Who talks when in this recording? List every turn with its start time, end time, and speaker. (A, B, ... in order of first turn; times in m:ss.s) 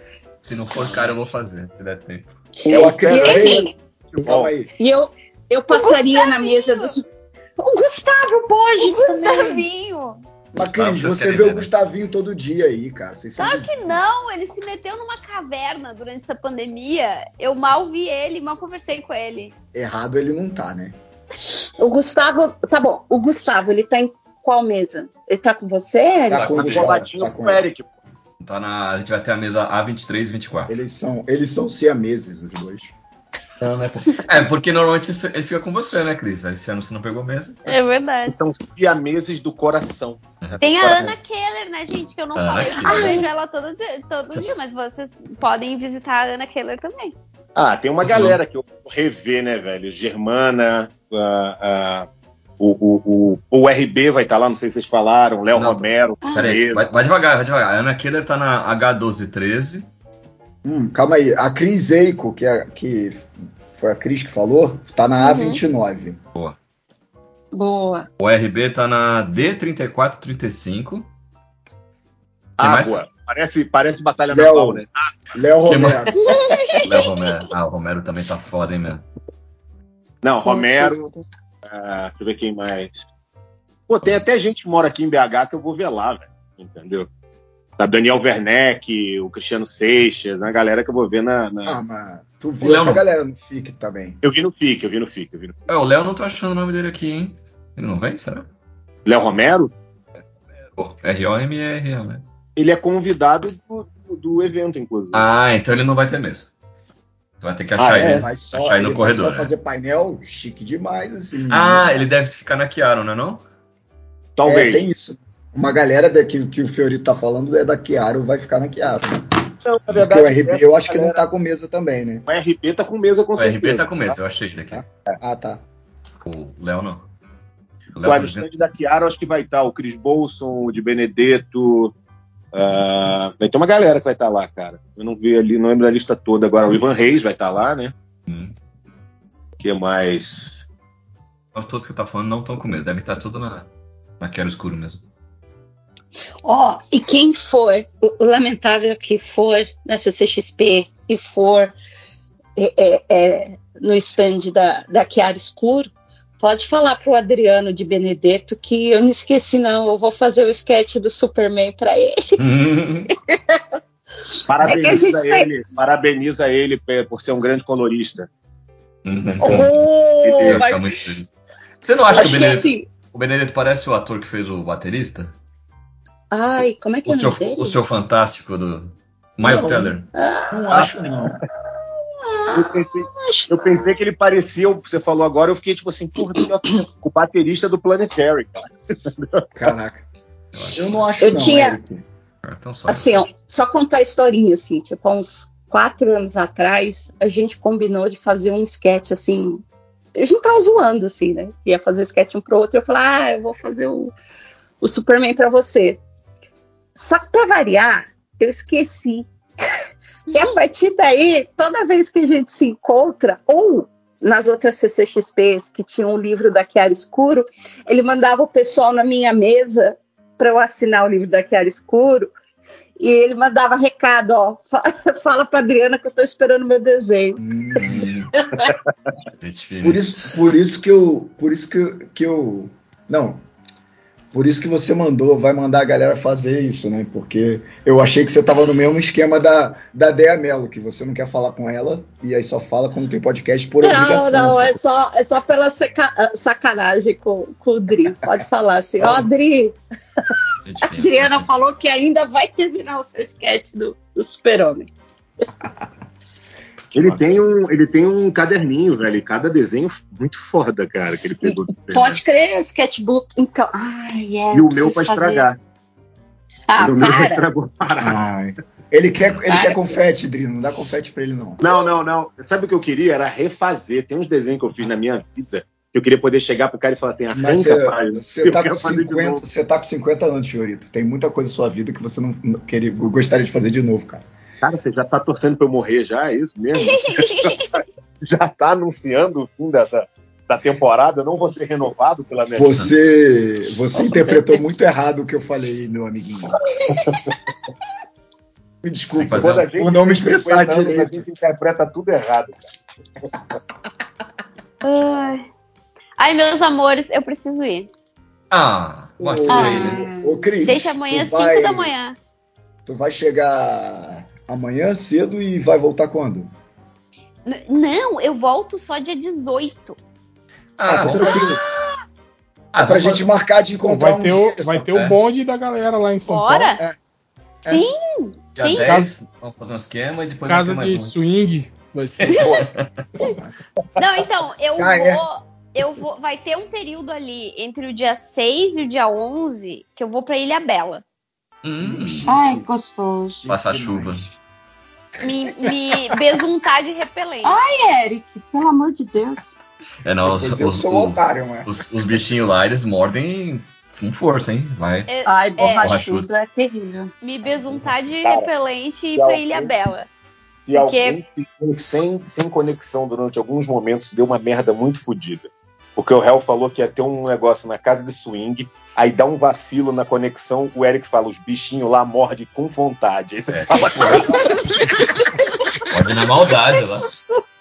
0:00.4-0:02.3 A
0:02.6-0:03.7 B
0:02.7-0:03.7 C
0:02.7-0:03.6 D
0:04.2-0:04.5 D
0:04.2-0:04.7 C
0:04.8-0:07.0 B
0:05.7-0:07.0 E
0:07.6-0:09.6 B
0:08.8-0:10.2 E
0:10.5-0:14.0 C
0:10.6-0:11.7 A
0:13.4-0:19.5 E
0:19.7-0:21.0 C
0:21.8-0:26.5 B
0:26.3-0:27.6 C
0:26.3-0:27.0 A
0:26.3-0:27.9 D
0:28.4-0:30.7 A
0:30.7-0:32.9 C
0:33.6-0:37.6 A
0:37.6-0:38.4 E
0:38.3-0:41.1 D
0:40.6-0:47.1 E
0:42.3-0:43.3 A
0:44.3-0:44.6 A
0:47.6-0:52.1 D
0:48.0-0:48.4 A
0:52.6-0:56.8 D
0:55.5-0:59.9 A
0:56.2-0:56.6 B
1:00.6-1:06.2 C
1:05.2-1:05.6 E
1:07.5-1:08.1 B
1:08.2-1:11.1 A
1:12.6-1:13.0 A
1:12.6-1:15.0 D
1:14.3-1:16.2 C
1:15.7-1:16.1 A
1:16.2-1:16.9 B
1:16.8-1:19.0 A
1:20.2-1:21.1 D
1:20.4-1:21.2 B
1:21.7-1:23.0 D
1:23.9-1:27.1 D
1:27.8-1:31.8 D
1:31.6-1:34.2 C
1:32.6-1:33.0 A
1:34.2-1:35.7 D
1:35.7-1:38.5 A
1:39.0-1:39.7 D
1:40.7-1:42.2 A
1:42.6-1:45.2 D
1:45.1-1:46.5 A
1:47.4-1:49.5 A
1:47.8-1:48.2 D
1:47.9-1:52.0 C
1:51.5-1:53.4 A
1:54.4-1:54.8 D
1:54.4-1:59.3 C
1:59.6-2:01.2 D
1:59.9-2:02.2 C
2:02.3-2:03.8 D
2:03.4-2:04.8 A
2:04.7-2:05.6 C
2:06.2-2:07.1 A
2:07.9-2:08.6 A
2:08.0-2:11.9 D
2:12.5-2:17.9 D
2:18.3-2:18.5 A
2:19.6-2:20.6 D
2:21.5-2:23.7 A
2:24.2-2:25.0 A
2:26.4-2:31.7 B
2:32.6-2:42.4 B
2:42.4-2:43.1 A
2:44.3-2:45.5 B
2:44.5-2:48.3 D
2:49.0-2:49.8 A
2:49.4-2:50.9 B
2:50.2-2:50.6 D
2:50.4-2:51.3 A
2:51.8-2:55.3 A
2:52.1-2:52.9 B
2:56.3-2:57.8 B
2:57.0-3:00.1 A
2:59.4-3:01.4 C
3:00.1-3:00.8 B
3:02.0-3:03.9 B
3:02.5-3:09.5 D
3:09.5-3:10.0 C
3:10.5-3:11.0 A
3:10.7-3:12.0 C
3:11.2-3:11.8 B
3:12.4-3:13.3 A
3:12.9-3:19.6 B
3:20.1-3:24.1 B
3:24.8-3:26.0 B
3:26.9-3:29.3 B
3:30.3-3:42.3 B
3:43.0-3:48.0 B
3:47.4-3:48.0 C
3:47.8-3:48.3 A
3:49.4-3:50.1 A
3:49.8-3:53.4 C
3:54.3-4:04.8 C
4:03.8-4:09.8 B
4:10.6-4:11.5 A
4:10.8-4:14.9 B
4:16.9-4:17.4 C
4:16.9-4:22.2 D
4:21.8-4:25.5 B
4:24.5-4:25.6 D
4:26.7-4:27.4 B
4:26.8-4:28.2 D
4:26.8-4:27.2 C
4:28.0-4:31.6 C
4:29.5-4:30.0 B
4:31.6-4:39.4 D
4:37.3-4:44.2 C
4:44.6-4:47.5 D
4:46.8-4:47.6 E
4:48.2-4:52.8 D
4:52.5-4:56.6 C
4:58.8-5:01.2 C
4:59.2-4:59.7 A
4:59.4-5:02.7 D
5:04.8-5:05.4 E
5:06.2-5:07.9 E
5:08.5-5:10.0 A
5:09.2-5:11.9 C
5:09.5-5:10.5 B
5:10.6-5:12.2 E
5:12.8-5:16.5 C
5:17.4-5:20.0 E
5:20.8-5:21.4 A
5:20.9-5:21.6 C
5:22.7-5:23.2 A
5:22.8-5:24.9 C
5:23.8-5:26.7 F
5:24.9-5:25.2 A
5:26.3-5:26.8 E
5:27.6-5:28.9 E
5:28.5-5:31.1 A
5:28.8-5:29.1 F
5:30.5-5:32.5 F
5:32.2-5:33.0 A
5:32.3-5:32.6 E
5:34.0-5:41.0 E
5:34.7-5:35.2 C
5:41.6-5:42.3 A
5:41.8-5:42.7 C
5:42.2-5:43.5 B
5:43.4-5:44.3 C
5:43.5-5:44.2 A
5:45.2-5:47.6 E
5:47.4-5:49.6 B
5:50.0-5:55.1 A
5:50.2-5:51.7 C
5:55.1-5:56.0 E
5:55.2-5:57.1 B
5:55.6-5:56.3 A
5:57.2-6:00.1 E
5:58.2-5:58.5 D
5:59.2-5:59.7 D
6:00.6-6:14.3 D
6:00.7-6:01.2 E
6:13.5-6:14.4 A
6:15.9-6:17.1 A
6:16.2-6:16.9 B